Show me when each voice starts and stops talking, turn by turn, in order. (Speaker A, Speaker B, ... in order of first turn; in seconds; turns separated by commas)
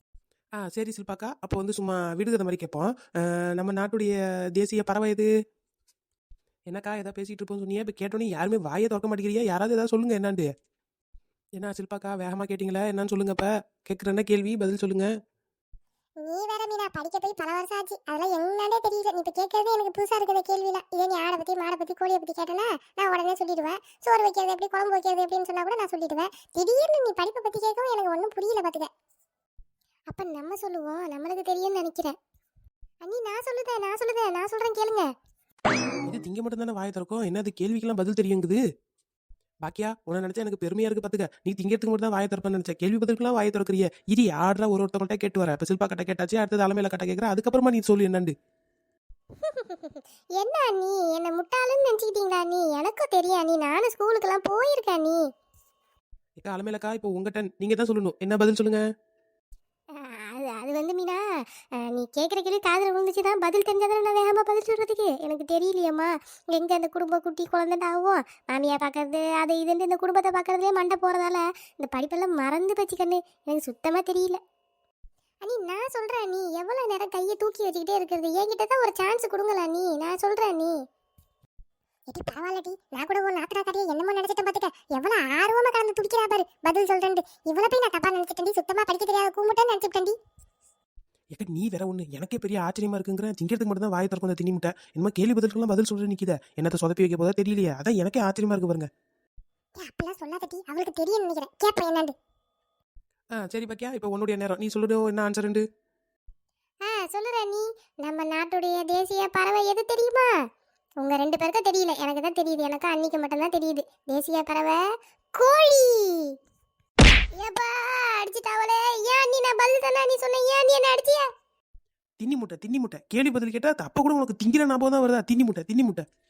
Speaker A: 0.6-5.3, Speaker A: 6.7-10.5, Speaker A: 11.6-15.1, Speaker B: 16.2-28.9, Speaker B: 30.1-32.1, Speaker B: 33.0-35.1, Speaker A: 36.0-38.6, Speaker A: 39.6-48.3, Speaker B: 49.4-55.2, Speaker A: 56.4-58.8, Speaker B: 59.9-61.2, Speaker B: 61.8-74.4, Speaker B: 75.4-80.7, Speaker B: 82.1-90.2, Speaker A: 91.3-98.9, Speaker B: 99.8-102.1, Speaker A: 103.3-105.6, Speaker B: 106.8-110.3, Speaker B: 111.0-114.8, Speaker B: 115.4-116.3, Speaker B: 117.3-121.3, Speaker A: 122.2-126.0